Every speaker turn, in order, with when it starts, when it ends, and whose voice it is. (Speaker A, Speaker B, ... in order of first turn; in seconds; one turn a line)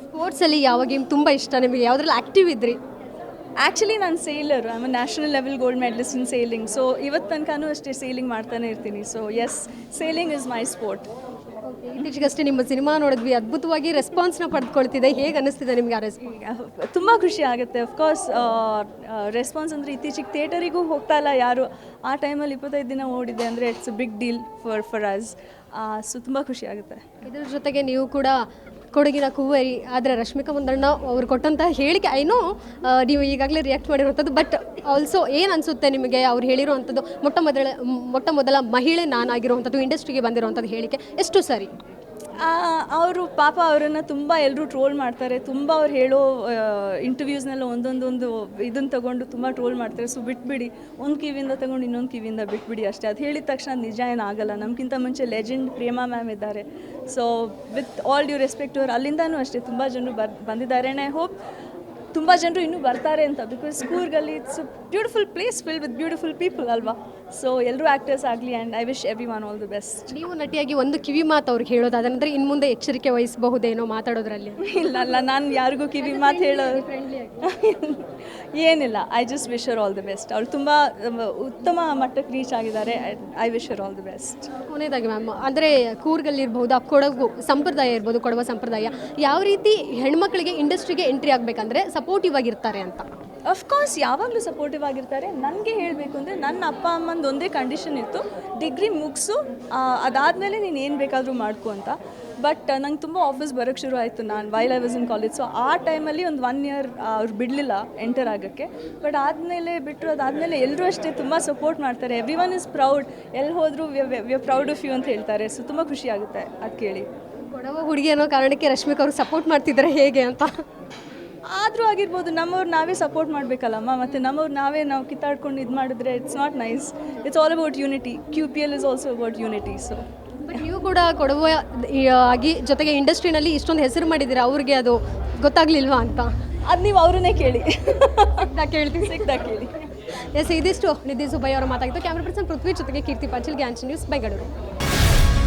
Speaker A: 0.1-2.8
Speaker B: 3.6-11.1
Speaker A: 11.7-16.4
Speaker B: 16.2-27.0
Speaker A: 27.2-28.4
Speaker A: 28.9-41.7
Speaker B: 42.4-61.3
Speaker B: 62.1-70.1
Speaker A: 70.1-75.2
Speaker B: 74.6-76.9
Speaker A: 76.0-77.4
Speaker B: 77.4-84.5
Speaker A: 84.7-93.0
Speaker B: 93.5-117.1
Speaker A: 117.5-120.5
Speaker B: 121.5-130.0
Speaker A: 130.4-136.3
Speaker B: 136.7-138.5
Speaker A: 138.4-139.2
Speaker B: 139.0-139.9
Speaker A: 140.3-144.5